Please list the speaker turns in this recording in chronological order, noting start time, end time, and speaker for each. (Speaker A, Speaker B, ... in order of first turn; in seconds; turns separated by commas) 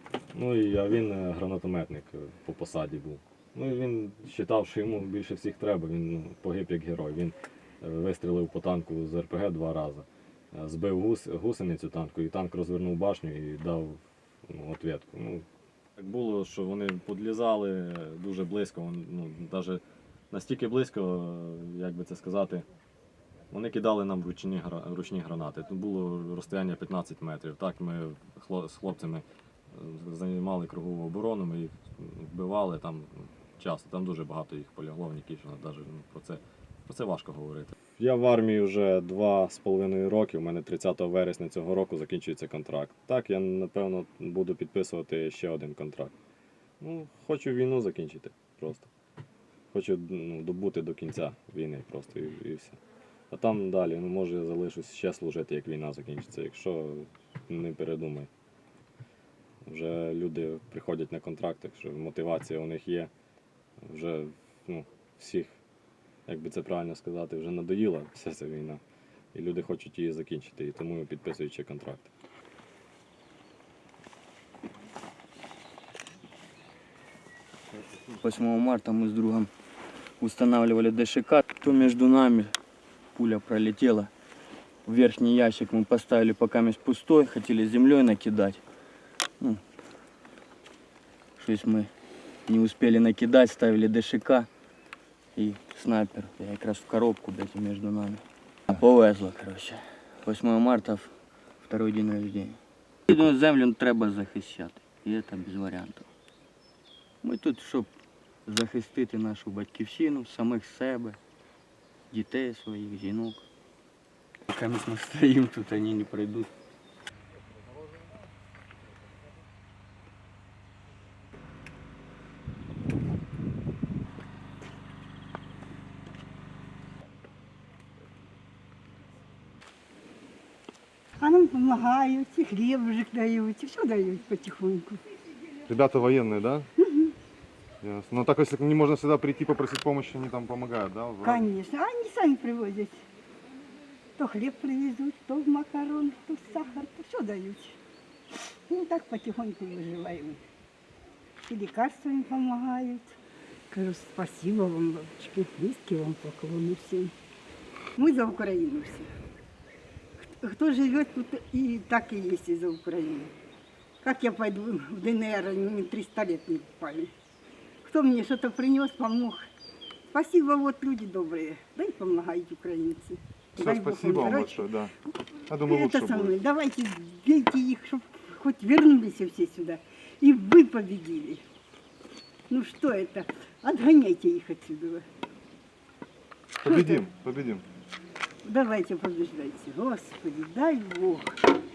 Speaker A: 0.3-15.4, Speaker A: 16.0-22.7, Speaker A: 23.5-46.1, Speaker A: 46.8-48.9, Speaker A: 49.7-52.8, Speaker A: 53.3-58.3, Speaker A: 59.7-63.1, Speaker A: 63.8-65.6, Speaker A: 66.3-68.8, Speaker A: 69.3-72.1, Speaker B: 78.1-79.5, Speaker B: 80.2-82.5, Speaker B: 83.2-84.1, Speaker B: 84.9-88.6, Speaker B: 91.4-91.9, Speaker B: 92.5-94.5, Speaker B: 95.4-98.2, Speaker B: 98.8-101.1, Speaker B: 101.6-102.6, Speaker B: 103.1-106.0, Speaker B: 107.2-107.9, Speaker B: 108.5-111.2, Speaker B: 112.1-113.4, Speaker B: 114.5-116.5, Speaker C: 131.2-135.0, Speaker D: 135.7-136.7, Speaker D: 137.8-141.4, Speaker C: 141.2-143.1, Speaker C: 144.2-147.8, Speaker C: 148.7-150.4, Speaker C: 151.4-153.2, Speaker C: 153.7-157.1, Speaker C: 158.0-159.1, Speaker C: 160.2-163.3, Speaker C: 164.0-167.1, Speaker C: 167.8-169.5, Speaker C: 170.1-174.7, Speaker D: 173.6-174.9, Speaker D: 175.5-176.3, Speaker C: 175.5-181.4, Speaker C: 182.5-185.1, Speaker D: 186.6-187.6, Speaker C: 186.6-187.1, Speaker C: 188.4-191.4